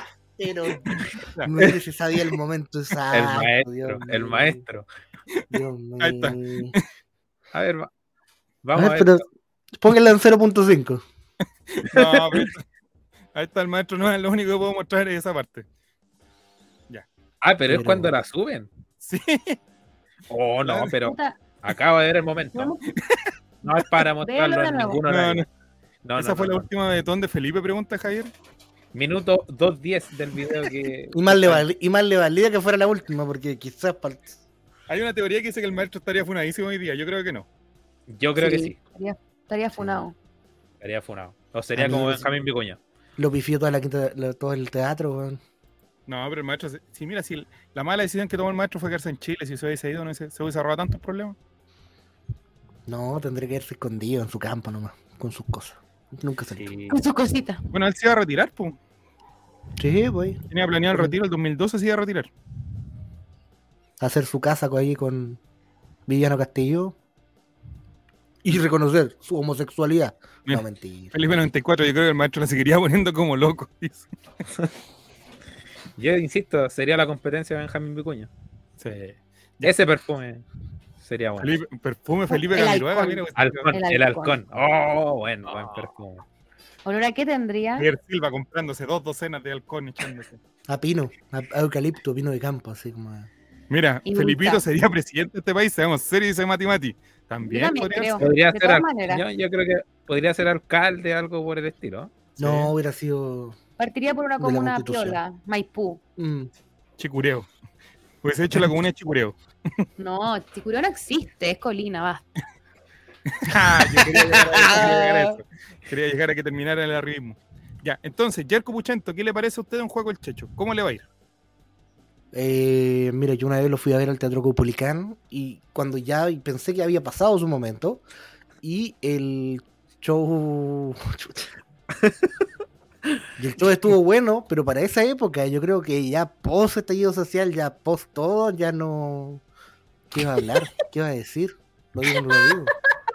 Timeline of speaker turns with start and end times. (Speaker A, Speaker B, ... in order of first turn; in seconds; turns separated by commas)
Speaker A: 0.4-4.6, Speaker B: 3.1-4.9, Speaker A: 5.5-6.8, Speaker C: 6.0-6.8, Speaker B: 7.5-7.9, Speaker B: 8.6-9.2, Speaker A: 8.8-11.0, Speaker C: 11.7-12.6, Speaker B: 11.9-12.5, Speaker C: 13.3-15.7, Speaker B: 17.4-18.7, Speaker A: 17.7-18.1, Speaker C: 19.0-19.6, Speaker B: 20.3-22.8, Speaker C: 20.6-20.9, Speaker D: 21.0-21.4, Speaker D: 22.5-22.8, Speaker B: 23.6-25.4, Speaker D: 24.2-25.0, Speaker C: 25.1-25.5, Speaker B: 26.0-26.7, Speaker C: 26.2-28.3, Speaker B: 28.9-31.6, Speaker A: 31.1-34.4, Speaker C: 34.9-37.5, Speaker B: 38.1-38.8, Speaker D: 38.4-40.1, Speaker A: 39.8-40.1, Speaker B: 40.8-42.8, Speaker A: 41.8-42.3, Speaker A: 43.2-45.4, Speaker C: 46.1-51.4, Speaker A: 52.9-56.7, Speaker B: 56.6-57.0, Speaker D: 56.9-57.6, Speaker C: 57.7-58.8, Speaker A: 59.8-61.1, Speaker C: 60.5-62.3, Speaker A: 64.0-65.4, Speaker A: 66.1-67.0, Speaker A: 68.4-71.1, Speaker C: 70.5-74.1, Speaker B: 76.0-78.3, Speaker C: 78.8-79.7, Speaker B: 79.6-80.4, Speaker B: 81.0-81.6, Speaker C: 81.4-83.7, Speaker D: 82.3-83.2, Speaker B: 83.4-86.2, Speaker D: 83.7-84.4, Speaker D: 86.8-87.9, Speaker C: 87.8-90.4, Speaker A: 90.7-93.3, Speaker C: 93.7-98.3, Speaker D: 94.0-94.6, Speaker D: 97.4-99.2, Speaker B: 98.2-102.3, Speaker A: 102.4-103.6, Speaker C: 102.4-102.7, Speaker D: 103.8-106.0, Speaker A: 104.4-105.2, Speaker A: 106.2-106.5, Speaker C: 107.0-107.5, Speaker C: 108.2-109.4, Speaker D: 110.0-112.2, Speaker C: 113.3-121.1, Speaker A: 113.9-115.4, Speaker A: 122.3-128.0, Speaker A: 128.6-131.5, Speaker A: 133.4-139.4, Speaker A: 140.1-142.7